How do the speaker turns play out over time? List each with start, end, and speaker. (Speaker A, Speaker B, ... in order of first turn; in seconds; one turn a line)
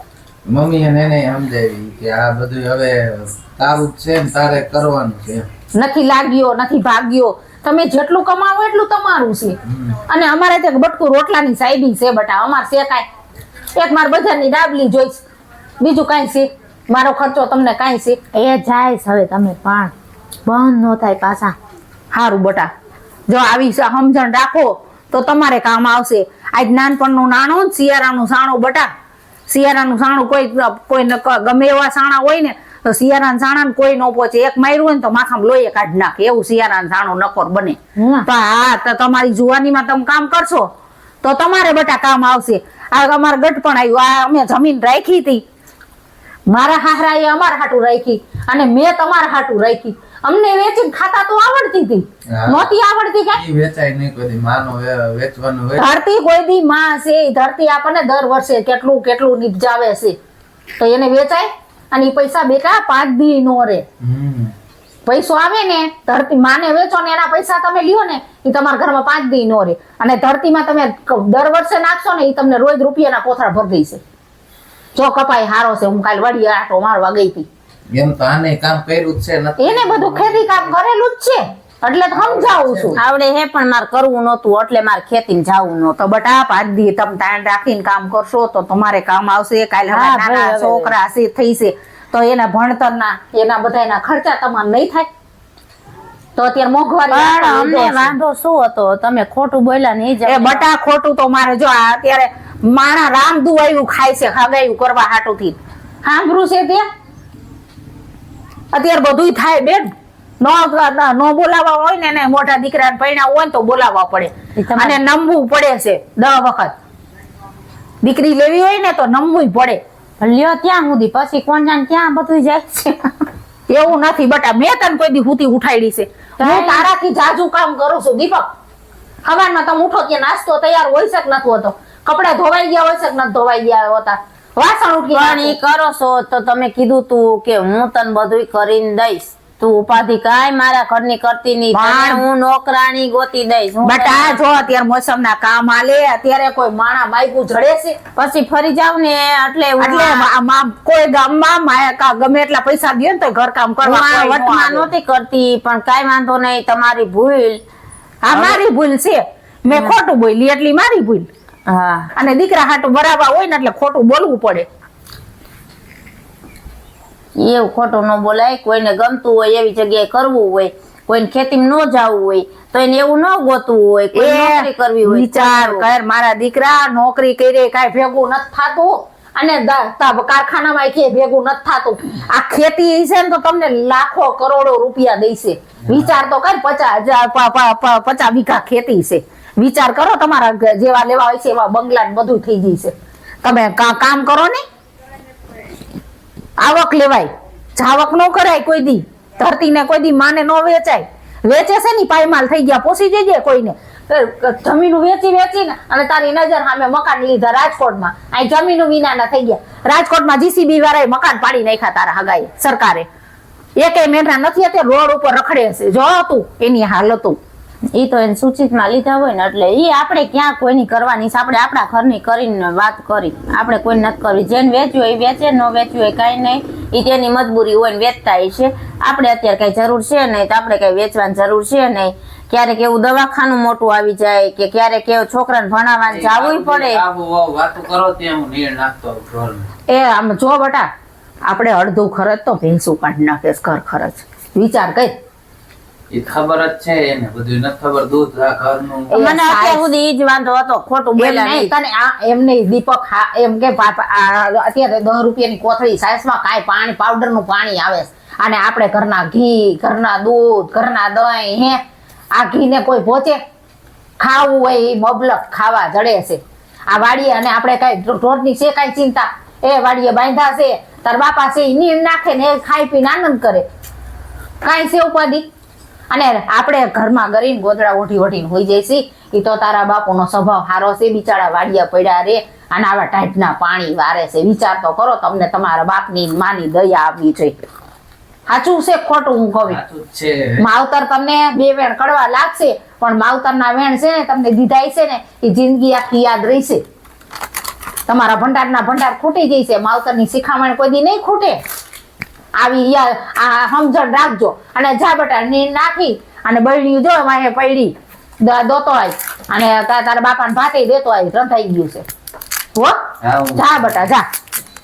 Speaker A: 0.5-5.5
Speaker B: 5.7-13.1
Speaker A: 9.7-10.0
Speaker B: 13.8-15.2
Speaker B: 15.8-18.2
Speaker C: 18.3-19.9
Speaker C: 20.4-21.6
Speaker B: 22.1-22.7
Speaker B: 23.3-28.9
Speaker B: 29.5-40.7
Speaker C: 38.0-38.3
Speaker B: 41.2-45.4
Speaker B: 46.5-53.4
Speaker A: 52.3-52.7
Speaker A: 53.3-55.9
Speaker B: 55.8-60.2
Speaker B: 60.8-63.8
Speaker A: 64.0-64.5
Speaker B: 65.0-74.0
Speaker B: 74.9-77.5
Speaker A: 77.9-80.7
Speaker B: 79.6-83.0
Speaker A: 82.1-83.0
Speaker C: 82.9-86.0
Speaker B: 86.0-95.1
Speaker C: 89.9-90.9
Speaker B: 96.3-98.1
Speaker C: 97.1-100.6
Speaker B: 100.2-106.8
Speaker B: 108.7-116.7
Speaker C: 114.5-115.0
Speaker B: 118.0-119.8
Speaker C: 120.2-123.1
Speaker B: 123.7-128.5
Speaker C: 126.4-126.8
Speaker B: 129.2-135.6
Speaker C: 135.1-144.4
Speaker B: 141.7-142.2
Speaker B: 143.8-148.0
Speaker C: 148.2-150.3
Speaker B: 149.8-154.9
Speaker C: 153.8-157.6
Speaker B: 158.2-161.3
Speaker C: 158.3-158.6
Speaker C: 159.7-159.9
Speaker C: 161.7-162.1
Speaker B: 162.2-164.7
Speaker C: 167.3-175.8
Speaker B: 174.1-194.6
Speaker B: 196.6-213.1
Speaker B: 213.8-217.4
Speaker C: 217.9-237.0
Speaker A: 236.1-239.7
Speaker B: 239.9-240.9
Speaker B: 241.4-245.1
Speaker A: 246.1-249.1
Speaker B: 249.1-249.9
Speaker C: 249.1-251.7
Speaker B: 251.2-261.8
Speaker B: 262.3-263.4
Speaker B: 264.2-273.6
Speaker B: 274.6-275.4
Speaker B: 276.1-287.6
Speaker B: 288.5-289.8
Speaker A: 289.6-290.6
Speaker B: 290.6-296.8
Speaker B: 298.1-301.6
Speaker B: 302.6-312.0
Speaker B: 312.7-313.0
Speaker A: 313.2-313.9
Speaker B: 313.6-314.2